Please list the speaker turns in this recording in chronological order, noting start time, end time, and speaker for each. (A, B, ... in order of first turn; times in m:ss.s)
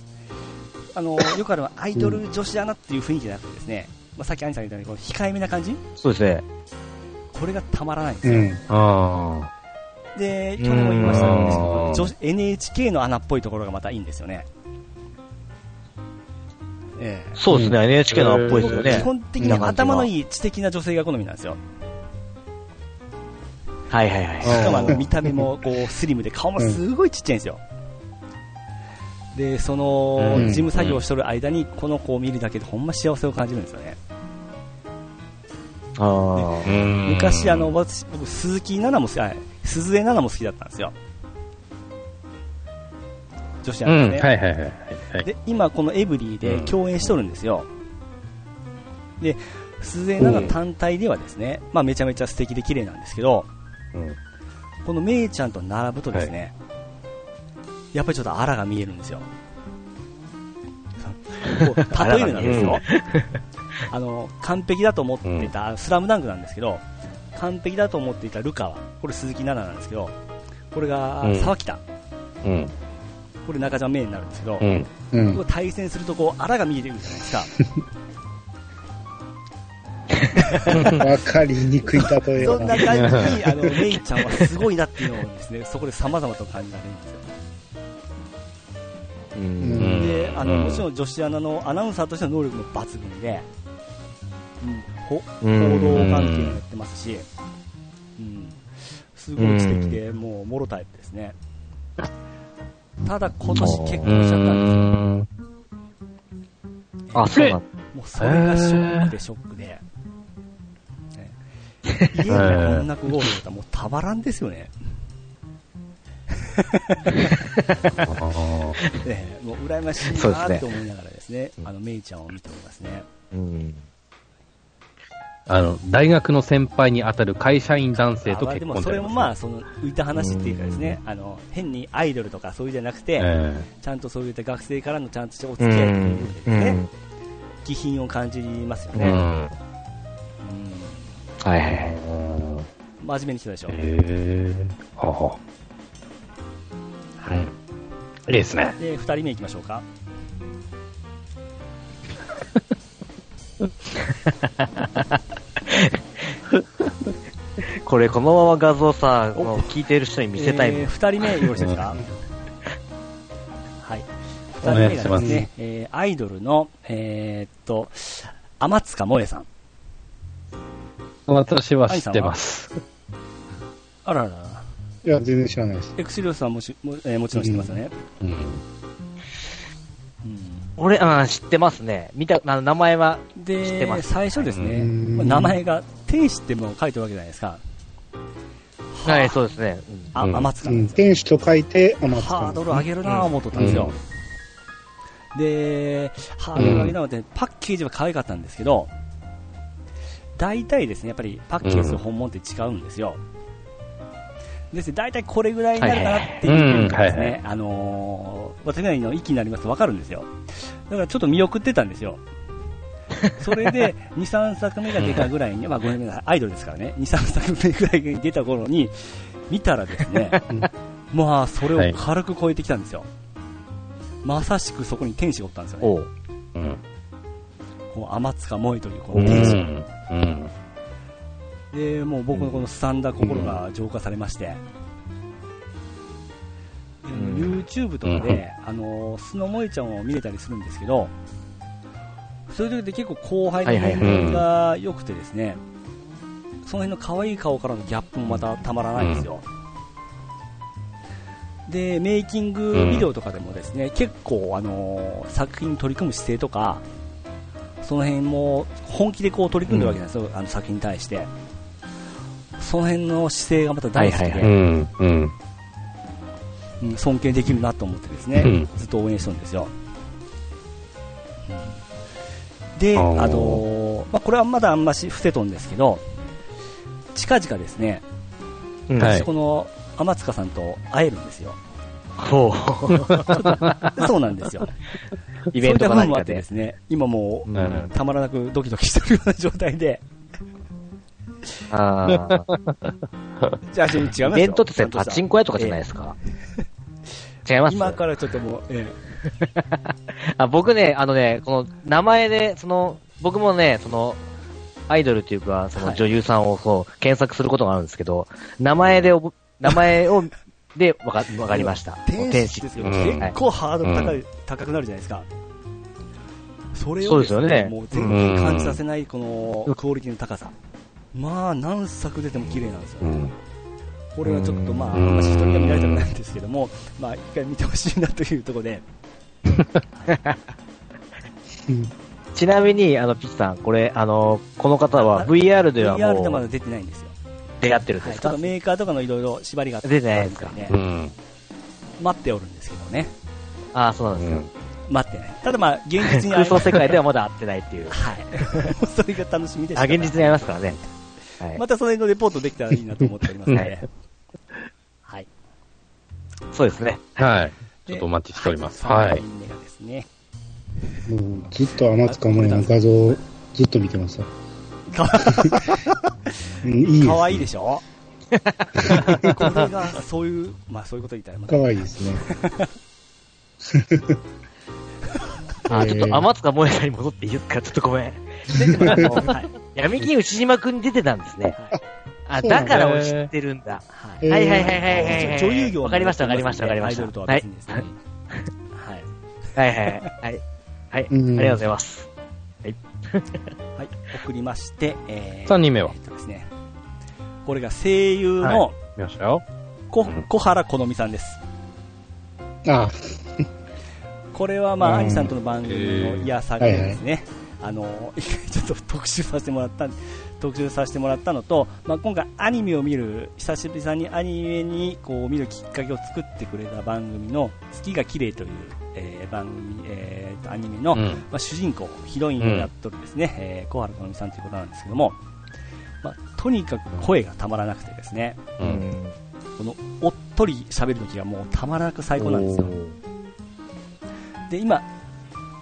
0:01.0-0:05.8 A
0:06.0-0:06.4 B
0:07.3-0:08.6 A
0:08.2-0:08.6 C
0:08.7-0:09.5 D
0:10.2-0:14.5 A
0:10.6-0:11.8 B
0:11.0-0:12.1 D
0:17.0-0:17.4 A
0:17.4-0:20.1 B
0:17.5-0:17.8 C
0:18.1-0:19.0 D
0:18.5-0:21.6 A
0:19.4-0:19.7 C
0:23.9-0:25.0 B
0:24.4-0:27.6 A
0:24.9-0:25.4 C
0:29.3-0:34.0 A
0:30.2-0:31.0 D
0:30.4-0:30.7 C
0:36.0-0:36.8 B
0:36.4-0:41.0 A
0:36.6-0:37.7 D
0:43.6-0:44.3 A
0:43.9-0:45.3 D
0:45.2-0:47.7 A
0:46.4-0:46.7 D
0:49.2-0:53.5 A
0:50.2-0:50.6 D
0:54.8-0:56.5 A
0:57.9-0:59.3 A
1:01.0-1:02.9 A
1:01.6-1:03.4 B
1:02.4-1:02.8 D
1:03.9-1:06.8 A
1:05.2-1:05.5 D
1:07.4-1:10.2 A
1:10.7-1:11.8 A
1:11.2-1:11.5 D
1:12.4-1:12.7 D
1:13.4-1:17.5 A
1:14.6-1:14.9 D
1:15.1-1:15.4 C
1:20.4-1:21.0 A
1:20.7-1:23.7 C
1:20.7-1:21.0 D
1:22.3-1:27.2 A
1:23.0-1:23.3 D
1:29.4-1:29.9 B
1:29.6-1:30.0 C
1:29.8-1:30.8 D
1:29.9-1:33.5 A
1:34.6-1:37.3 A
1:35.4-1:36.1 B
1:35.9-1:36.6 D
1:38.2-1:41.4 A
1:39.4-1:40.0 B
1:43.0-1:45.0 A
1:43.5-1:44.1 B
1:44.0-1:45.3 D
1:47.1-1:47.6 B
1:47.9-1:49.8 A
1:48.2-1:49.1 D
1:51.9-1:52.3 B
1:52.0-1:54.7 A
1:52.3-1:52.9 D
1:56.4-1:57.4 A
1:58.0-1:58.8 D
1:58.9-2:03.1 A
2:00.1-2:00.7 B
2:03.3-2:03.8 B
2:05.5-2:09.3 D
2:08.1-2:16.8 A
2:10.2-2:11.0 B
2:13.2-2:13.7 D
2:15.6-2:16.9 B
2:17.6-2:19.2 A
2:18.9-2:19.2 B
2:19.0-2:19.5 D
2:20.4-2:21.2 A
2:21.4-2:22.0 B
2:21.7-2:22.7 D
2:23.0-2:23.8 A
2:23.7-2:25.4 D
2:27.2-2:27.5 A
2:28.3-2:28.8 D
2:28.8-2:29.8 A
2:34.1-2:36.0 B
2:37.6-2:41.4 B
2:39.4-2:39.7 A
2:40.4-2:42.0 A
2:43.8-2:49.5 A
2:44.6-2:45.4 D
2:45.2-2:45.5 C
2:51.3-2:52.8 D
2:51.9-2:52.4 A
2:54.0-2:54.6 A
2:55.0-2:55.9 C
2:56.0-2:58.0 A
2:57.4-2:57.8 C
2:58.2-2:58.6 D
3:00.2-3:00.7 A
3:00.8-3:04.4 B
3:03.4-3:07.6 A
3:04.5-3:04.8 D
3:04.7-3:05.6 C
3:08.9-3:09.4 A
3:09.0-3:10.2 B
3:10.1-3:11.2 A
3:10.2-3:10.5 D
3:10.6-3:12.8 C
3:12.0-3:14.0 A
3:13.1-3:14.0 D
3:15.3-3:18.9 A
3:16.6-3:16.9 D
3:20.4-3:23.2 A
3:21.6-3:22.0 D
3:24.7-3:30.3 A
3:25.8-3:26.4 B
3:26.5-3:27.4 D
3:30.9-3:32.2 A
3:33.4-3:40.4 A
3:35.0-3:35.3 D
3:41.1-3:43.1 A
3:44.2-3:46.0 A
3:45.8-3:46.1 B
3:46.6-3:46.8 D
3:47.9-3:49.6 A
3:49.1-3:50.5 D
3:49.2-3:49.6 B
3:51.7-3:54.6 A
3:52.3-3:52.6 B
3:53.2-3:53.6 B
3:57.0-4:01.1 A
3:57.1-3:57.6 B
3:58.0-3:58.4 D
4:02.5-4:05.6 A
4:03.6-4:04.4 B
4:04.0-4:04.4 D
4:06.6-4:09.4 A
4:09.0-4:09.2 D
4:11.7-4:16.8 A
4:12.7-4:13.1 D
4:17.8-4:21.3 A
4:22.6-4:24.5 A
4:24.0-4:24.5 B
4:24.4-4:25.3 D
4:26.8-4:29.7 A
4:28.4-4:28.7 D
4:31.5-4:31.8 A
4:32.8-4:36.0 A
4:33.0-4:33.6 D
4:37.1-4:38.0 A
4:38.9-4:39.3 B
4:39.0-4:39.3 D
4:39.0-4:41.6 A
4:42.2-4:43.9 B
4:42.9-4:43.9 D
4:43.8-4:44.7 A
4:45.5-4:46.4 B
4:45.6-4:50.0 A
4:47.5-4:47.9 D
4:51.7-4:52.5 B
4:52.1-4:53.6 D
4:53.7-4:55.8 A
4:54.2-4:56.2 B
4:57.5-4:58.0 B
4:57.7-4:59.0 A
4:59.2-5:04.2 B
5:04.9-5:13.4 B
5:05.8-5:06.0 A
5:11.5-5:15.3 A
5:12.8-5:13.2 D
5:13.8-5:14.2 D
5:16.7-5:20.5 A
5:17.0-5:18.1 B
5:18.0-5:18.8 D
5:21.1-5:23.3 A
5:23.0-5:23.3 D
5:24.2-5:28.8 A
5:24.2-5:25.0 B
5:24.9-5:26.1 D
5:30.1-5:30.4 B
5:32.3-5:36.4 B
5:35.0-5:37.1 A
5:37.6-5:38.5 B
5:38.0-5:40.8 A
5:39.8-5:40.6 B
5:40.7-5:41.1 D
5:42.0-5:43.1 A
5:43.7-5:44.4 B
5:44.2-5:44.5 D
5:44.9-5:47.0 A
5:46.0-5:48.0 B
5:47.9-5:50.6 A
5:49.8-5:50.8 B
5:51.5-5:53.9 A
5:56.5-5:57.3 B
5:57.2-5:59.2 D
5:57.9-6:00.1 A
6:01.1-6:04.3 C
6:02.0-6:02.8 A
6:04.9-6:06.1 A
6:05.2-6:05.7 C
6:06.6-6:07.5 C
6:06.9-6:07.8 A
6:08.3-6:09.5 B
6:08.8-6:09.5 C
6:08.9-6:12.7 A
6:11.5-6:12.2 C
6:13.7-6:14.2 C
6:15.7-6:16.3 C
6:15.7-6:21.6 B
6:18.5-6:19.1 C
6:18.6-6:19.5 A
6:18.9-6:19.1 D
6:22.3-6:28.5 B
6:22.4-6:22.8 C
6:22.6-6:23.3 D
6:23.9-6:27.9 A
6:24.2-6:25.4 C
6:28.7-6:29.1 A
6:29.6-6:32.1 B
6:31.1-6:31.6 C
6:32.6-6:33.5 B
6:33.8-6:36.5 A
6:35.5-6:35.9 D
6:37.5-6:38.8 A
6:38.4-6:39.4 D
6:39.9-6:41.4 A
6:42.7-6:43.4 C
6:44.3-7:05.2 A
6:44.8-6:45.3 C
6:45.6-6:46.3 D
6:46.6-6:47.0 C
7:00.9-7:01.2 D
7:02.4-7:02.7 D
7:06.0-7:08.5 A
7:08.6-7:08.9 D
7:08.6-7:09.2 B
7:09.6-7:12.8 A
7:12.2-7:12.9 B
7:14.5-7:14.9 A